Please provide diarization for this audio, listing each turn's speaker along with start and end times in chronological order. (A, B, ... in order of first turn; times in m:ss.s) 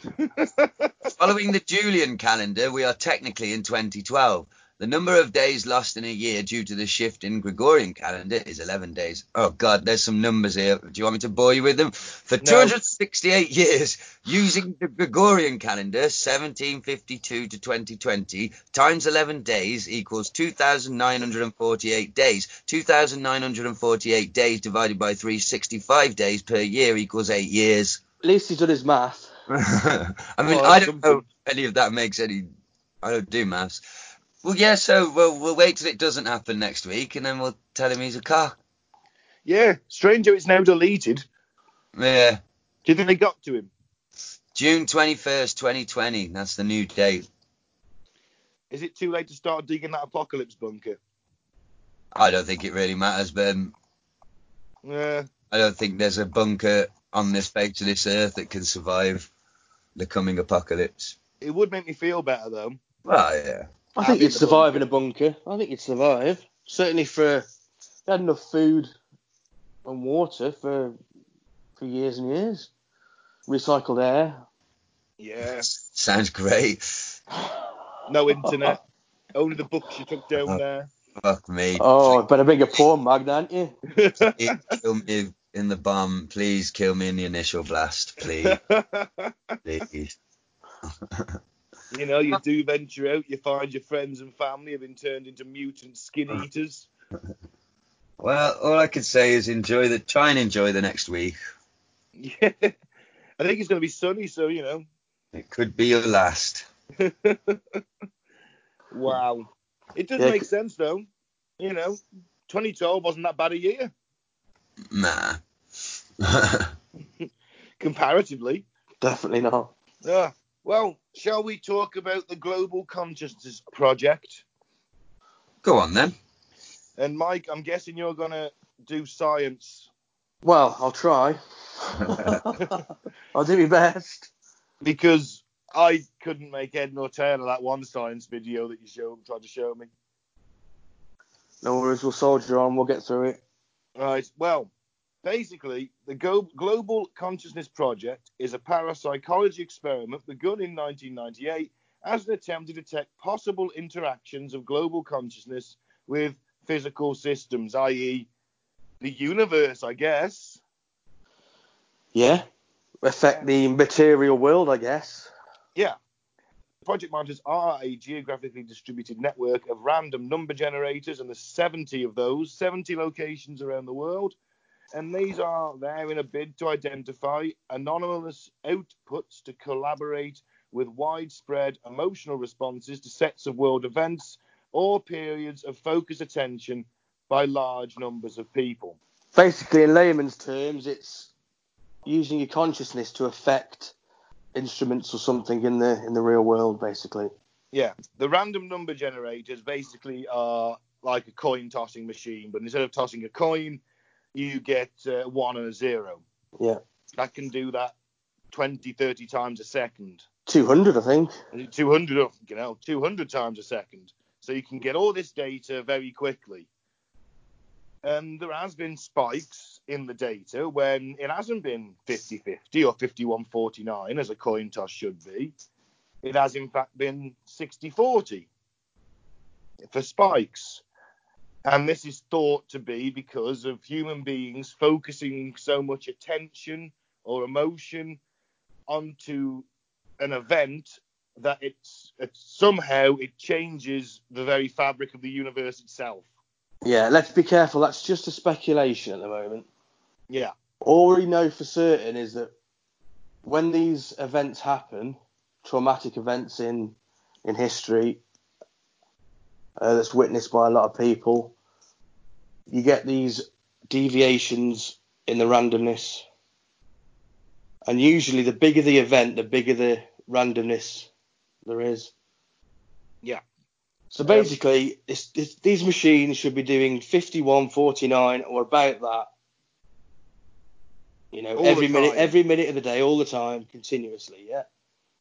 0:00.2-0:01.1 A
0:01.2-0:28.0 B
0:12.4-0:12.7 A
0:28.2-0:29.3 C
0:29.5-0:32.5 B
0:30.4-0:31.2 A
0:33.0-0:33.8 B
0:34.4-0:38.6 B
0:39.4-0:41.2 A
0:42.0-0:42.4 B
0:42.8-0:43.7 A
0:44.5-0:47.3 B
0:48.7-0:51.0 A
0:52.1-0:53.7 B
0:54.8-0:55.3 A
0:55.5-0:59.3 B
1:00.0-1:01.2 B
1:01.4-1:02.8 A
1:03.0-1:03.7 B
1:04.0-1:04.8 A
1:04.0-1:07.4 C
1:08.1-1:08.9 C
1:09.8-1:11.0 C
1:11.8-1:12.7 C
1:13.5-1:14.4 C
1:15.2-1:15.7 A
1:15.6-1:17.1 B
1:18.1-1:18.8 A
1:18.4-1:18.7 C
1:19.3-1:20.9 A
1:21.2-1:22.2 B
1:21.8-1:23.7 C
1:23.9-1:24.8 A
1:24.2-1:28.6 B
1:28.4-1:29.6 A
1:29.6-1:30.2 B
1:30.9-1:31.4 B
1:31.9-1:36.8 A
1:38.2-1:41.4 B
1:42.2-1:42.7 A
1:43.4-1:44.8 A
1:45.3-1:46.7 B
1:47.0-1:47.6 A
1:48.9-1:51.1 A
1:50.2-1:50.4 C
1:51.6-1:53.9 A
1:54.9-1:55.4 B
1:56.2-1:56.7 B
1:57.8-1:58.6 A
1:59.0-1:59.7 C
2:00.0-2:04.4 A
2:05.6-2:06.1 B
2:07.0-2:09.9 A
2:10.4-2:12.8 C
2:12.1-2:12.4 B
2:13.3-2:14.3 C
2:14.8-2:19.9 A
2:21.6-2:23.4 C
2:24.0-2:24.7 A
2:25.2-2:38.3 A
2:39.0-2:40.6 A
2:42.1-2:42.4 C
2:43.0-2:45.3 C
2:46.8-2:54.3 A
2:54.9-3:09.0 A
3:09.3-3:11.3 C
3:12.0-3:13.9 C
3:14.5-3:17.3 C
3:17.7-3:23.8 A
3:24.3-3:26.2 A
3:27.2-3:27.9 A
3:28.5-3:30.2 A
3:30.5-3:31.3 C
3:31.5-3:36.7 A
3:38.0-3:45.5 A
3:46.2-3:48.5 A
3:49.8-3:50.8 A
3:51.6-3:58.2 A
3:58.9-3:59.6 A
4:00.2-4:06.2 A
4:06.8-4:09.7 C
4:10.8-4:12.5 C
4:13.4-4:18.2 C
4:19.8-4:21.5 C
4:22.7-4:26.2 C
4:27.9-4:31.1 C
4:31.6-4:32.1 C
4:34.1-4:39.3 C
4:34.2-4:34.5 A
4:41.3-4:44.7 C
4:41.6-4:42.3 A